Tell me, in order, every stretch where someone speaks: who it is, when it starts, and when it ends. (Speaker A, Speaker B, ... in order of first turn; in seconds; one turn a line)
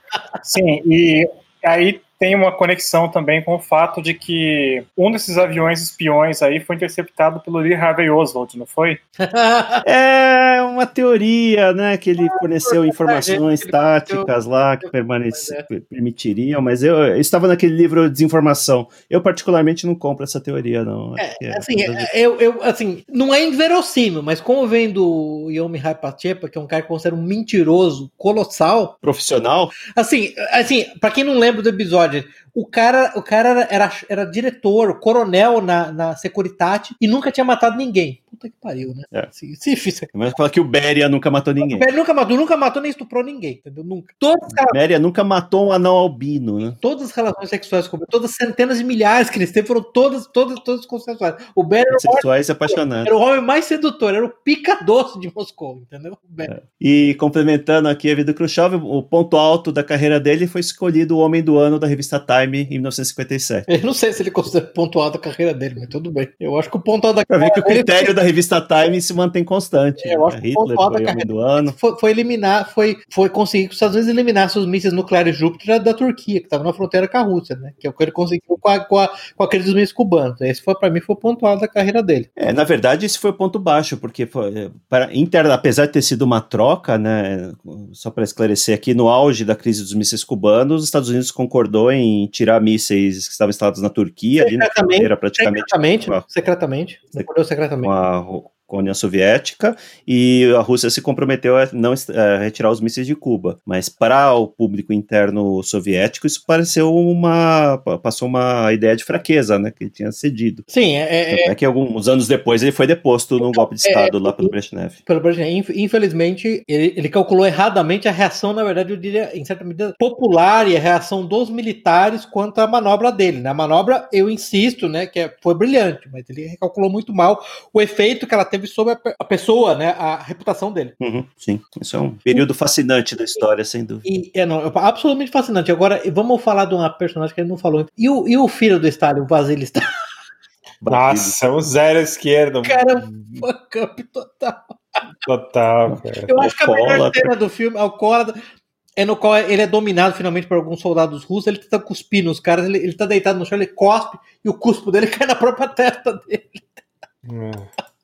Speaker A: 0.4-9.0
Speaker B: 9.2-9.8
Speaker C: 9.8-22.1
Speaker B: 12.2-14.3
Speaker B: 14.8-15.6
Speaker B: 21.2-28.9
Speaker C: 29.0-29.7
Speaker B: 29.9-40.1
Speaker C: 40.1-41.9
Speaker B: 41.6-44.8
Speaker C: 44.5-46.8
Speaker B: 46.8-56.5
Speaker C: 51.9-53.1
Speaker C: 56.4-63.7
Speaker B: 63.7-68.1
Speaker C: 67.3-71.8
Speaker B: 70.0-82.3
Speaker C: 82.4-96.2
Speaker B: 94.4-97.9
Speaker C: 97.8-110.6
Speaker B: 110.7-111.5
Speaker C: 111.3-115.0
Speaker B: 113.4-114.5
Speaker B: 115.0-130.9
Speaker C: 131.0-134.0
Speaker B: 134.0-139.9
Speaker C: 140.8-141.4
Speaker D: 140.9-143.4
Speaker B: 142.6-144.6
Speaker D: 145.2-146.3
Speaker B: 146.2-148.3
Speaker C: 146.4-147.3
Speaker B: 149.0-156.7
Speaker D: 157.2-157.7